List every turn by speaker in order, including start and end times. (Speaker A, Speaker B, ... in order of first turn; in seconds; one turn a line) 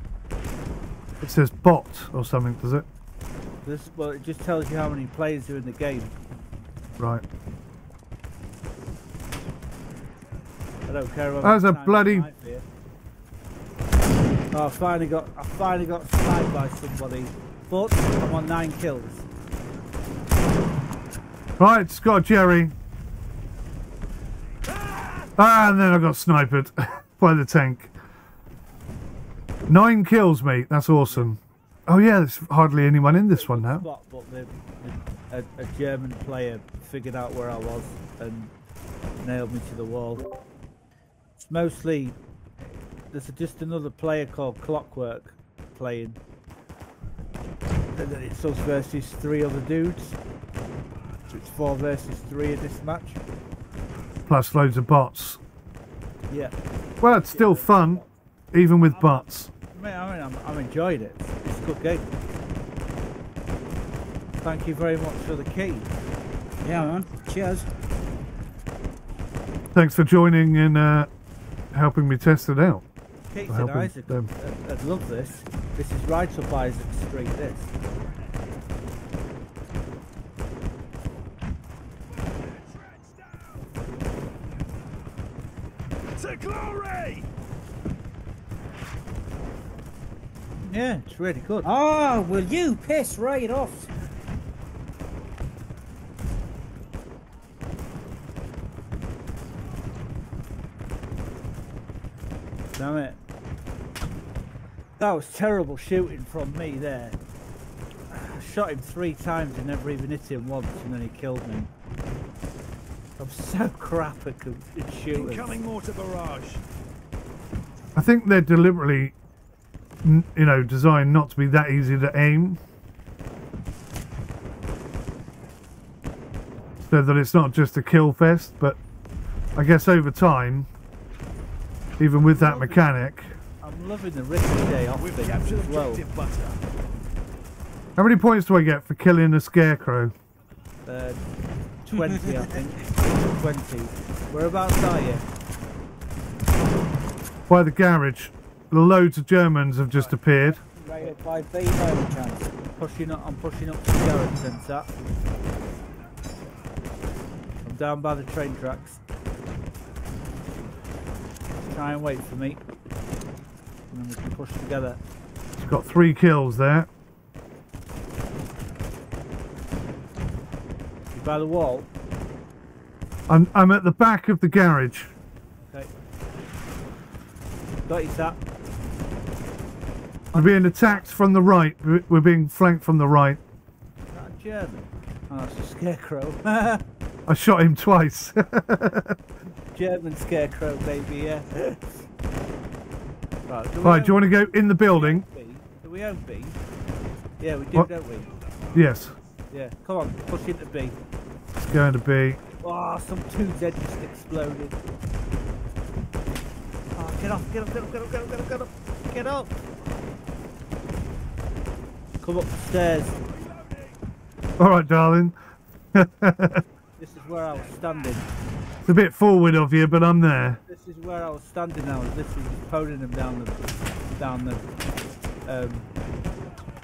Speaker A: 1.2-2.9
Speaker B: 3.6-6.1
Speaker B: 10.9-12.7
Speaker A: 11.4-12.3
Speaker B: 14.5-19.3
Speaker A: 21.6-22.7
Speaker A: 25.4-27.9
Speaker A: 29.7-33.9
Speaker B: 33.1-38.5
Speaker B: 39.2-40.3
Speaker B: 41.4-42.2
Speaker B: 43.1-46.2
Speaker B: 48.0-50.2
Speaker B: 51.3-53.2
Speaker A: 54.3-55.4
Speaker B: 56.3-56.6
Speaker A: 57.0-59.5
Speaker B: 57.3-58.1
Speaker B: 58.9-62.1
Speaker B: 64.4-65.9
Speaker C: 66.6-67.7
Speaker A: 69.7-71.1
Speaker A: 71.7-72.8
Speaker B: 73.3-77.7
Speaker A: 73.5-74.3
Speaker D: 86.2-87.3
Speaker B: 90.6-91.7
Speaker C: 91.6-93.9
Speaker B: 102.8-103.2
Speaker B: 105.0-107.2
Speaker B: 108.1-111.7
Speaker B: 113.2-115.6
Speaker D: 115.1-116.6
Speaker A: 118.0-119.1
Speaker A: 120.0-122.6
Speaker A: 126.9-128.8
Speaker A: 129.6-130.7
Speaker A: 132.0-133.4
Speaker B: 132.3-132.8
Speaker B: 133.6-136.0
Speaker D: 135.0-136.6
Speaker A: 138.0-140.1
Speaker B: 140.9-141.2
Speaker B: 141.8-145.3
Speaker C: 142.1-142.4
Speaker A: 147.5-150.6
Speaker C: 150.6-152.5
Speaker B: 150.9-151.1
Speaker B: 152.8-154.9
Speaker B: 157.7-159.0
Speaker B: 161.7-162.6
Speaker B: 163.9-165.0
Speaker A: 165.6-166.9
Speaker B: 171.1-171.9
Speaker A: 173.3-175.1
Speaker B: 177.9-178.4
Speaker B: 180.3-181.1
Speaker A: 180.3-183.4
Speaker B: 184.1-186.8
Speaker A: 187.3-189.2
Speaker B: 189.7-191.8
Speaker B: 193.5-194.3
Speaker A: 193.8-195.2
Speaker B: 194.9-196.6
Speaker B: 197.4-198.3
Speaker A: 198.7-199.2
Speaker B: 199.5-201.0
Speaker A: 201.6-202.4
Speaker B: 202.6-204.8
Speaker B: 206.9-209.5
Speaker B: 212.2-213.2
Speaker D: 213.3-213.9
Speaker A: 214.6-215.4
Speaker A: 215.9-216.6
Speaker B: 217.0-218.3
Speaker A: 218.8-220.6
Speaker B: 220.6-224.6
Speaker B: 225.5-225.9